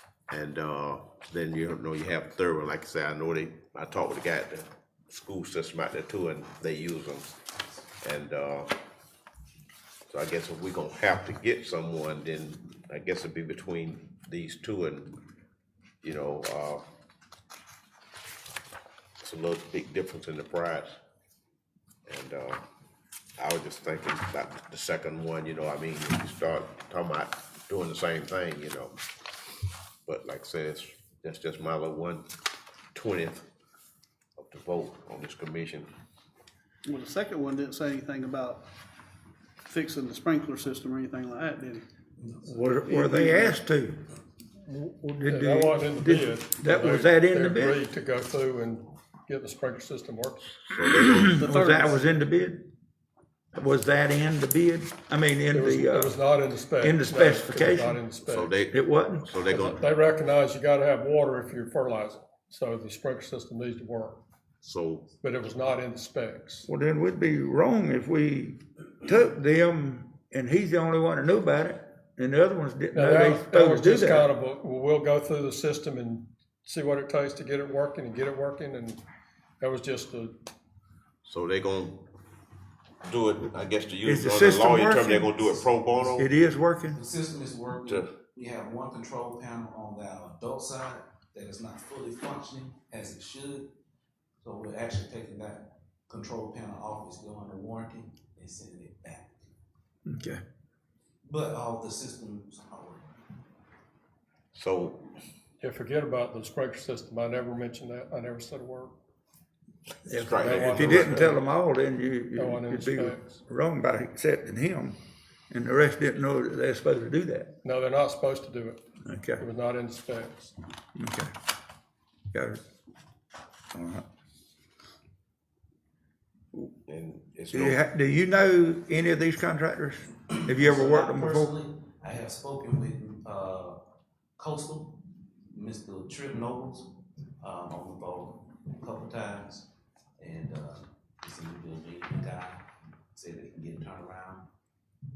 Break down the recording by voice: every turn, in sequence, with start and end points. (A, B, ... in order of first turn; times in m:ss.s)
0:00.3-0:07.3 A
0:08.0-0:08.7 A
0:10.1-0:15.2 A
0:16.0-0:16.8 A
0:19.2-0:21.0 A
0:22.1-0:22.6 A
0:23.4-0:29.0 A
0:30.1-0:32.3 A
0:32.9-0:33.5 A
0:34.4-0:35.9 A
0:36.8-0:38.6 B
0:39.6-0:41.8 B
0:42.4-0:44.1 C
0:42.9-0:43.6 B
0:44.7-0:47.8 C
0:45.2-0:50.5 D
0:50.6-0:51.5 A
0:51.0-0:52.7 C
0:51.4-0:52.0 B
0:53.5-0:56.2 C
0:55.5-0:58.6 D
0:56.8-0:58.0 C
0:58.3-0:59.8 A
0:58.7-0:59.3 C
0:59.5-1:04.2 D
1:04.6-1:05.1 A
1:05.2-1:06.7 D
1:06.7-1:14.3 C
1:12.9-1:19.0 D
1:19.6-1:20.4 D
1:21.2-1:22.0 A
1:23.0-1:26.3 A
1:24.1-1:25.3 C
1:26.0-1:26.3 E
1:26.2-1:27.0 C
1:26.9-1:33.7 E
1:34.4-1:39.5 E
1:40.1-1:40.4 C
1:41.2-1:43.1 E
1:44.5-1:45.1 A
1:45.6-1:48.9 D
1:50.1-1:51.4 A
1:50.1-1:51.4 D
1:50.4-1:55.0 C
1:52.4-1:53.3 D
1:55.5-1:57.5 C
1:57.6-1:58.8 D
1:59.1-1:59.4 C
1:59.4-2:00.5 D
2:01.0-2:01.3 C
2:02.3-2:02.6 C
2:03.7-2:04.0 C
2:06.9-2:07.8 A
2:07.5-2:11.5 C
2:10.4-2:13.8 E
2:14.4-2:24.5 E